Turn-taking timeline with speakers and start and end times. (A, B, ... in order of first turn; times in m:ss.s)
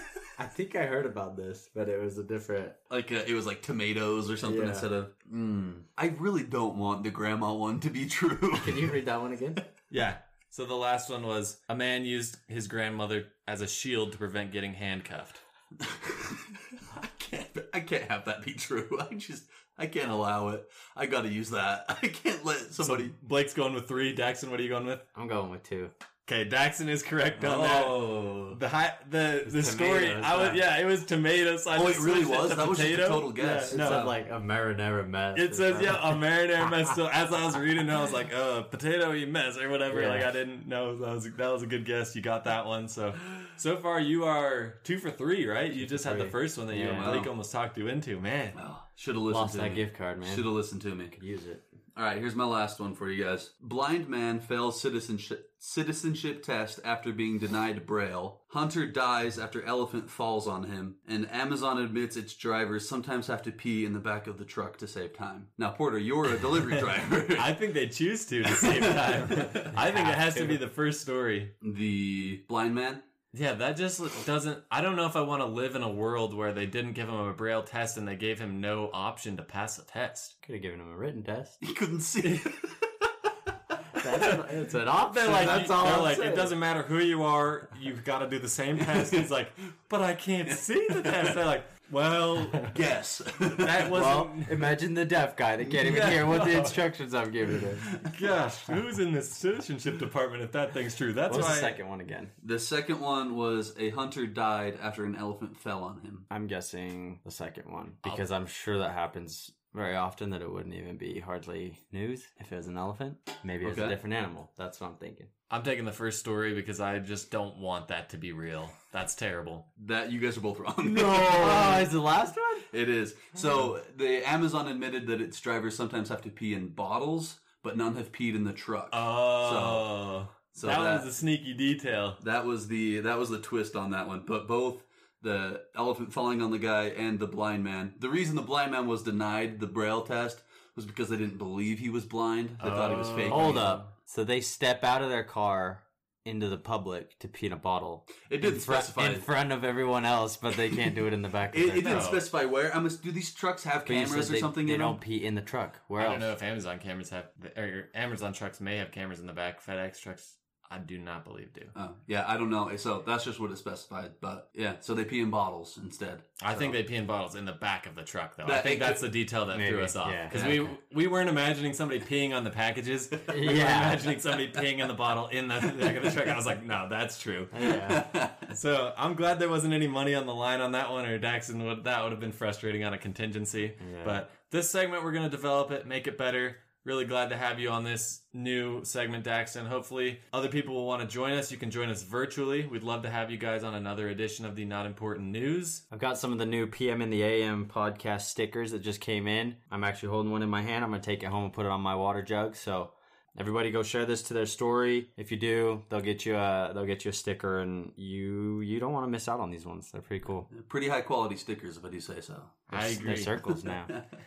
0:00.4-0:02.8 A
0:02.9-0:09.0 B
0:04.4-0:04.9 A
0:08.6-0:09.6 A
0:09.9-0:15.4 C
0:15.8-0:23.2 B
0:22.8-0:25.1 C
0:25.2-0:25.9 A
0:26.3-0:34.1 C
0:27.4-0:28.6 B
0:29.5-0:30.6 A
0:31.7-0:34.1 B
0:33.6-0:36.2 A
0:35.3-0:48.6 C
0:39.9-0:40.3 A
0:45.8-0:47.3 A
0:46.9-0:47.3 B
0:48.6-0:51.2 B
0:49.3-0:50.5 A
0:51.1-0:51.6 A
0:52.0-1:07.6 B
1:06.7-1:11.5 C
1:08.5-1:09.8 B
1:09.8-1:10.6 A
1:11.6-1:13.0 B
1:13.3-1:20.4 C
1:20.4-1:21.6 A
1:21.6-1:22.9 B
1:22.2-1:22.5 C
1:23.9-1:26.6 A
1:24.0-1:24.4 C
1:24.9-1:32.8 C
1:28.8-1:29.3 B
1:30.5-1:31.4 B
1:32.4-1:34.0 B
1:33.5-1:34.7 C
1:33.7-1:37.9 A
1:35.8-1:36.8 C
1:35.9-1:36.2 B
1:37.8-1:38.2 B
1:38.0-1:41.8 C
1:41.3-1:42.3 A
1:42.4-1:46.3 B
1:46.3-1:55.3 A
1:53.6-1:54.0 B
1:55.5-1:59.7 C
1:59.8-2:01.9 B
2:00.8-2:02.7 A
2:02.7-2:09.9 B
2:08.9-2:12.2 C
2:10.5-2:11.1 B
2:12.2-2:23.7 B
2:22.6-2:23.9 C
2:23.3-2:32.2 A
2:28.3-2:29.3 B
2:31.5-2:35.0 B
2:31.8-2:32.2 C
2:33.8-2:36.3 A
2:36.0-2:41.7 C
2:41.8-2:46.8 B
2:46.4-2:57.7 C
2:48.4-2:49.1 B
2:49.5-2:50.7 A
2:53.3-2:54.1 A
2:55.6-2:56.4 B
2:57.5-2:58.1 A
2:57.7-2:58.5 B
2:58.5-3:15.8 C
3:03.8-3:04.2 A
3:15.9-3:30.5 A
3:30.5-3:34.0 B
3:32.7-3:33.4 C
3:32.7-3:33.9 A